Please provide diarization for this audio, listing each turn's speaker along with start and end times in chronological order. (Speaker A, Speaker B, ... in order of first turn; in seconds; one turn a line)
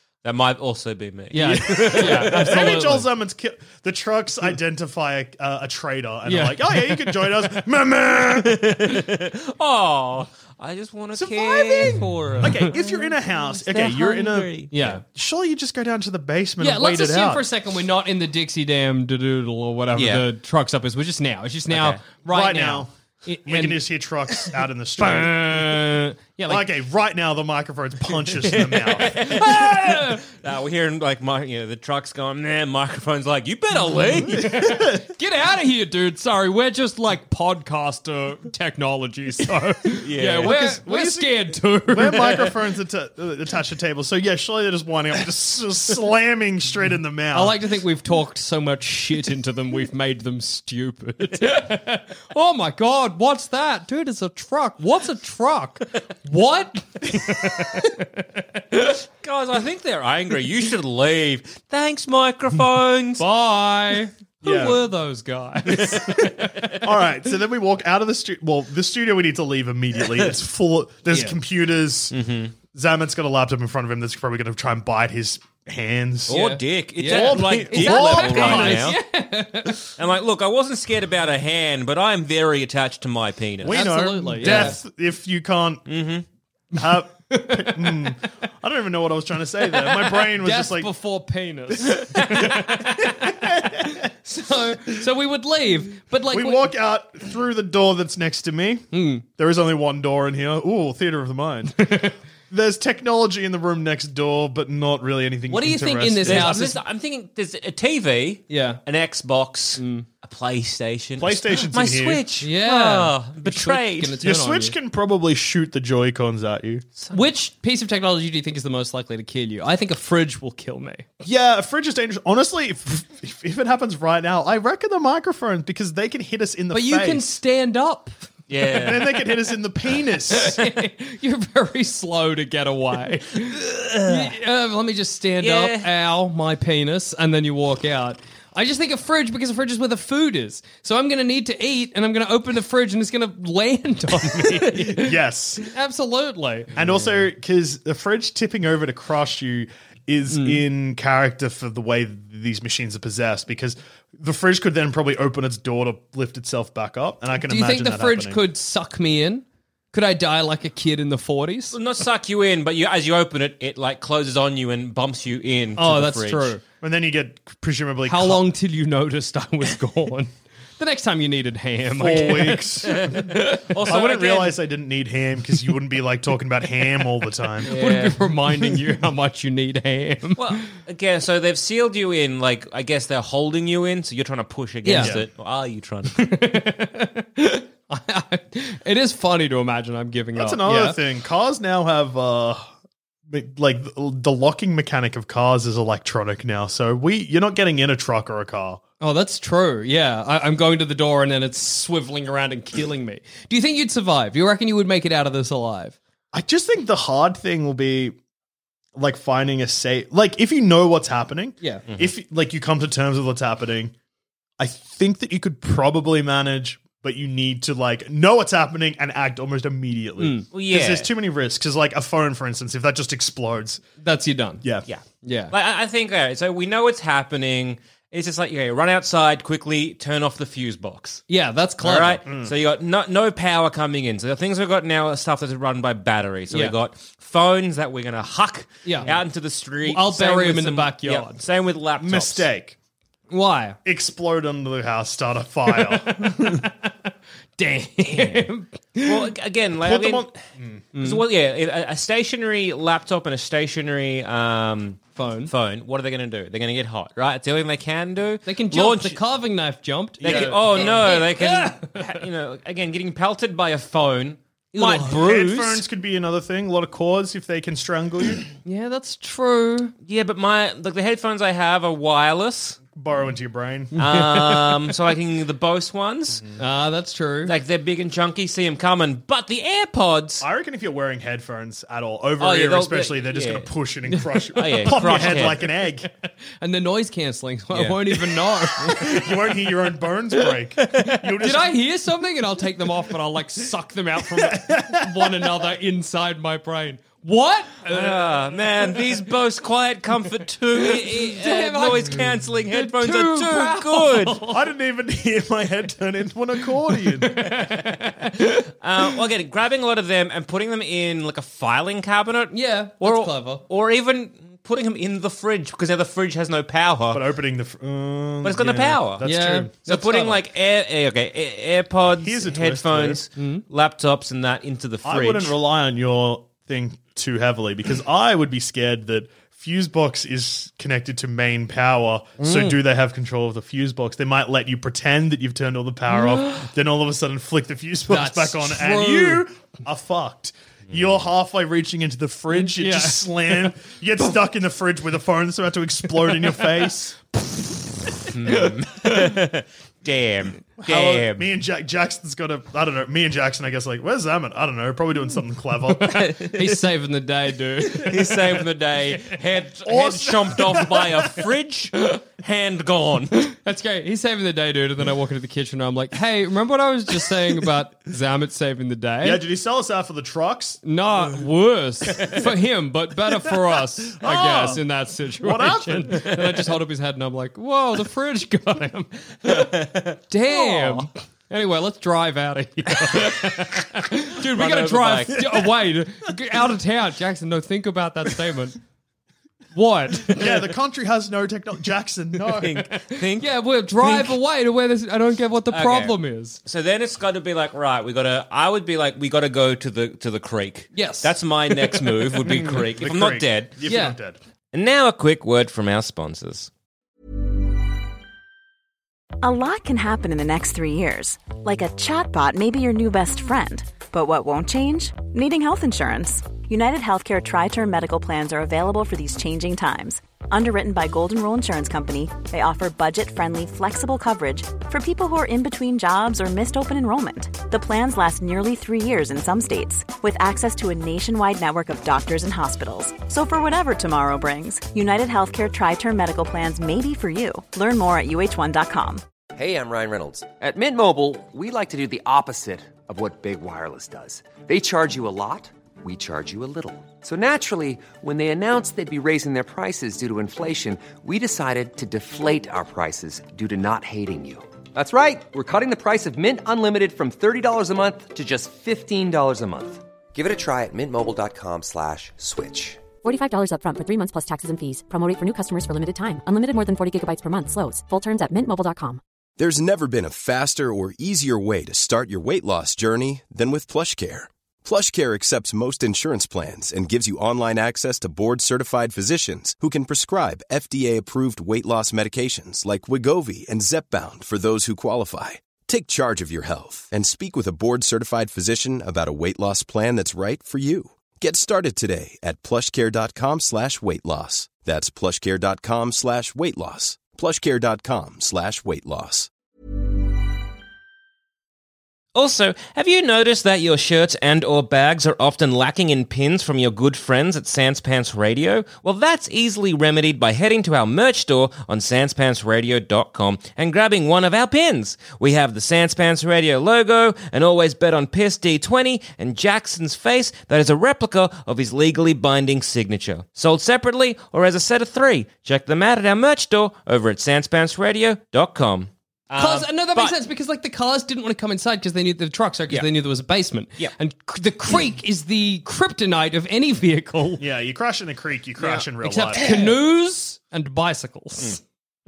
Speaker A: 0.2-2.8
Speaker B: 1.3-3.1
Speaker C: 1.4-8.9
Speaker B: 6.3-7.1
Speaker A: 8.2-14.9
Speaker C: 11.2-17.5
Speaker B: 14.7-15.0
Speaker B: 16.6-23.8
Speaker A: 19.9-20.3
Speaker A: 21.7-22.0
Speaker C: 22.3-22.9
Speaker C: 23.4-25.8
Speaker B: 25.0-26.7
Speaker C: 26.5-29.4
Speaker A: 28.4-34.6
Speaker B: 29.1-30.2
Speaker B: 34.2-42.5
Speaker C: 34.4-35.0
Speaker A: 40.0-40.7
Speaker C: 40.4-47.6
Speaker B: 47.3-59.0
Speaker A: 59.2-63.2
Speaker B: 63.2-66.8
Speaker C: 64.4-64.8
Speaker A: 65.8-66.7
Speaker C: 66.8-72.2
Speaker B: 71.1-71.4
Speaker A: 72.1-72.5
Speaker C: 72.7-76.4
Speaker A: 76.3-79.0
Speaker B: 76.3-79.9
Speaker C: 77.0-79.0
Speaker A: 80.0-83.8
Speaker C: 83.6-86.0
Speaker B: 83.7-84.8
Speaker A: 84.4-84.8
Speaker A: 85.9-86.2
Speaker C: 86.7-90.9
Speaker B: 87.3-88.1
Speaker B: 89.7-96.7
Speaker C: 93.0-94.0
Speaker C: 96.3-106.6
Speaker B: 98.9-99.2
Speaker B: 101.8-102.2
Speaker B: 105.5-106.8
Speaker A: 106.3-114.2
Speaker B: 108.5-108.8
Speaker B: 109.8-110.1
Speaker C: 111.2-112.2
Speaker B: 112.4-114.8
Speaker C: 114.2-116.8
Speaker A: 117.0-117.3
Speaker B: 117.1-121.1
Speaker C: 121.2-127.3
Speaker B: 126.7-128.2
Speaker A: 128.5-129.2
Speaker C: 128.7-130.6
Speaker B: 130.3-146.8
Speaker A: 133.6-134.3
Speaker A: 135.4-135.9
Speaker C: 144.7-145.7
Speaker C: 146.8-158.4
Speaker B: 150.3-150.6
Speaker B: 157.4-161.8
Speaker A: 161.7-166.6
Speaker B: 165.8-166.6
Speaker C: 166.8-168.5
Speaker B: 168.1-173.6
Speaker C: 171.9-177.7
Speaker A: 172.8-174.6
Speaker A: 177.7-178.3
Speaker B: 177.7-180.6
Speaker A: 180.4-186.3
Speaker B: 184.8-185.2
Speaker C: 185.0-185.2
Speaker B: 186.2-191.0
Speaker C: 190.3-192.7
Speaker C: 193.3-198.8
Speaker B: 199.0-206.0
Speaker C: 206.3-208.2
Speaker C: 209.0-213.9
Speaker C: 214.6-223.8
Speaker B: 220.2-220.5
Speaker A: 220.5-221.1
Speaker B: 224.0-224.6
Speaker A: 224.9-231.2
Speaker B: 225.2-225.5
Speaker B: 231.3-232.2
Speaker A: 231.8-242.5
Speaker C: 232.3-232.5
Speaker B: 238.8-239.1
Speaker B: 239.8-241.4
Speaker C: 242.0-242.8
Speaker B: 243.3-243.8
Speaker C: 243.8-246.6
Speaker B: 245.8-246.9
Speaker B: 247.6-249.3
Speaker A: 248.1-248.4
Speaker A: 249.0-250.4
Speaker C: 249.8-250.8
Speaker B: 250.9-251.2
Speaker A: 251.0-259.2
Speaker B: 255.2-255.5
Speaker B: 258.5-262.0
Speaker C: 260.2-261.1
Speaker A: 260.2-265.8
Speaker B: 264.8-265.2
Speaker C: 264.8-268.4
Speaker B: 268.6-269.9
Speaker A: 270.1-272.8
Speaker C: 272.9-273.9
Speaker B: 273.9-274.7
Speaker A: 274.0-276.5
Speaker B: 276.6-277.5
Speaker A: 277.5-280.4
Speaker C: 280.4-286.1
Speaker A: 282.4-283.7
Speaker B: 284.1-285.6
Speaker A: 284.6-285.6
Speaker B: 286.2-289.2
Speaker A: 287.7-288.4
Speaker C: 288.8-291.8
Speaker A: 290.8-291.4
Speaker B: 291.4-298.3
Speaker C: 294.2-295.5
Speaker A: 297.9-304.4
Speaker B: 300.8-304.6
Speaker C: 304.5-307.5
Speaker B: 307.2-308.6
Speaker A: 308.8-317.2
Speaker B: 312.5-313.6
Speaker C: 317.1-320.1
Speaker A: 318.4-319.2
Speaker B: 319.2-320.4
Speaker A: 319.9-325.6
Speaker C: 322.2-323.2
Speaker B: 323.4-323.6
Speaker C: 325.0-347.2
Speaker B: 332.4-332.7
Speaker B: 336.1-336.6
Speaker B: 338.1-339.4
Speaker B: 342.5-343.7
Speaker B: 348.1-349.4
Speaker A: 348.3-351.5
Speaker C: 350.8-356.2
Speaker B: 356.0-358.4
Speaker A: 356.1-356.8
Speaker A: 357.9-363.4
Speaker C: 359.8-361.4
Speaker B: 363.5-369.4
Speaker C: 369.2-371.4
Speaker B: 370.9-388.8
Speaker C: 372.1-372.4
Speaker C: 374.2-374.8
Speaker C: 375.4-376.6
Speaker A: 379.5-381.0
Speaker A: 384.4-385.6
Speaker B: 389.8-390.5
Speaker C: 390.3-392.9
Speaker A: 392.6-394.4
Speaker B: 393.1-396.6
Speaker A: 395.7-403.7
Speaker B: 400.9-401.9
Speaker C: 402.5-404.4
Speaker B: 403.9-404.2
Speaker A: 404.7-406.7
Speaker D: 409.4-439.2
Speaker E: 439.6-463.0
Speaker F: 463.2-469.2
Speaker G: 469.6-499.5
Speaker A: 502.4-530.4
Speaker B: 529.6-537.6
Speaker C: 537.6-539.7
Speaker B: 538.8-541.8